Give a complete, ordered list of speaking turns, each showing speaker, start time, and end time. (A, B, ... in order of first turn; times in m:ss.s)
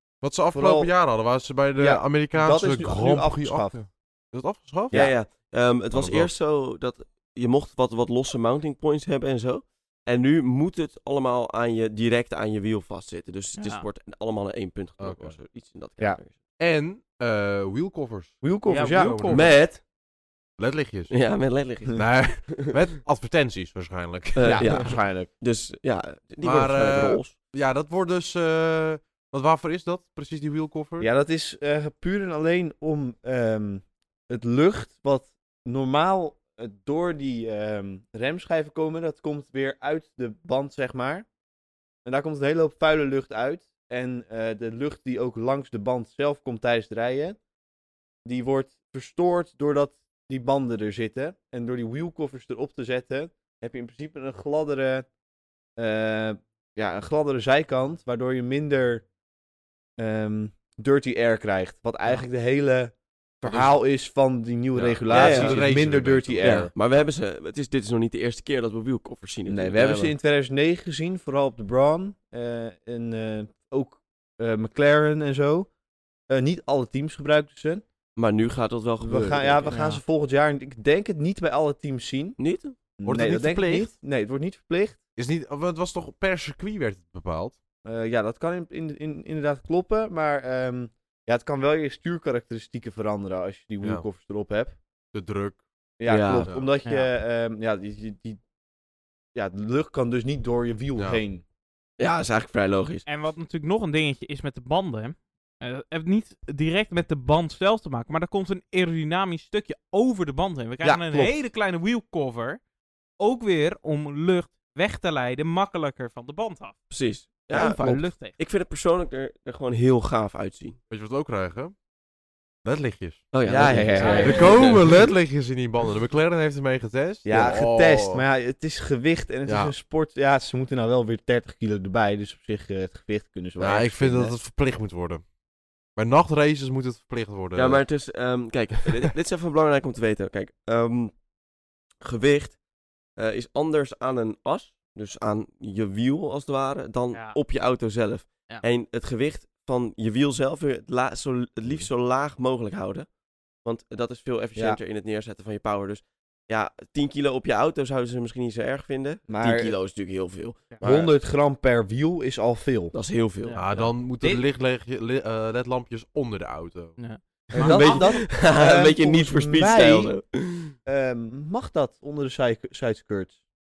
0:00.2-0:05.1 A
0:00.5-0:00.9 B
0:01.8-0:03.8 B
0:04.9-0:16.3 C
0:05.9-0:06.3 A
0:13.6-0:13.8 D
0:15.0-0:15.4 A
0:16.6-0:19.5 A
0:18.4-0:19.2 B
0:18.7-0:19.5 D
0:19.3-0:19.8 C
0:20.6-0:21.1 A
0:21.1-0:22.8 C
0:21.9-0:24.9 A
0:24.3-0:27.3 C
0:24.4-0:25.3 B
0:26.4-0:31.1 A
0:31.0-0:41.2 B
0:42.0-0:47.4 B
0:48.2-0:55.1 B
0:55.8-0:59.0 B
1:00.0-1:06.7 B
1:04.8-1:06.7 A
1:05.1-1:05.6 C
1:06.4-1:10.1 C
1:09.5-1:15.7 B
1:16.3-1:17.8 B
1:18.2-1:19.8 C
1:19.0-1:22.4 B
1:19.7-1:20.0 D
1:22.4-1:22.8 C
1:23.0-1:25.0 B
1:23.0-1:23.9 A
1:25.2-1:27.6 A
1:27.8-1:34.8 B
1:35.1-1:35.6 A
1:36.0-1:38.4 B
1:36.1-1:36.5 C
1:36.4-1:36.7 A
1:36.8-1:37.1 D
1:39.3-1:41.4 B
1:42.0-1:43.0 C
1:43.1-1:52.6 D
1:50.8-1:51.4 B
1:53.2-1:56.8 D
1:56.9-2:00.8 C
1:57.5-1:58.3 D
2:00.9-2:01.7 A
2:02.6-2:03.3 A
2:03.3-2:05.1 C
2:03.5-2:04.6 B
2:03.9-2:04.6 D
2:04.2-2:08.2 A
2:07.2-2:14.3 B
2:13.6-2:15.2 A
2:16.0-2:17.8 A
2:17.5-2:21.1 C
2:22.0-2:22.6 C
2:23.2-2:33.1 C
2:27.1-2:27.4 D
2:33.6-2:41.1 C
2:39.3-2:39.8 B
2:40.8-2:42.9 B
2:42.9-2:43.6 C
2:43.4-2:44.4 D
2:43.6-2:47.0 A
2:47.0-2:48.2 D
2:47.5-2:50.1 B
2:47.6-2:50.7 C
2:50.8-2:53.3 B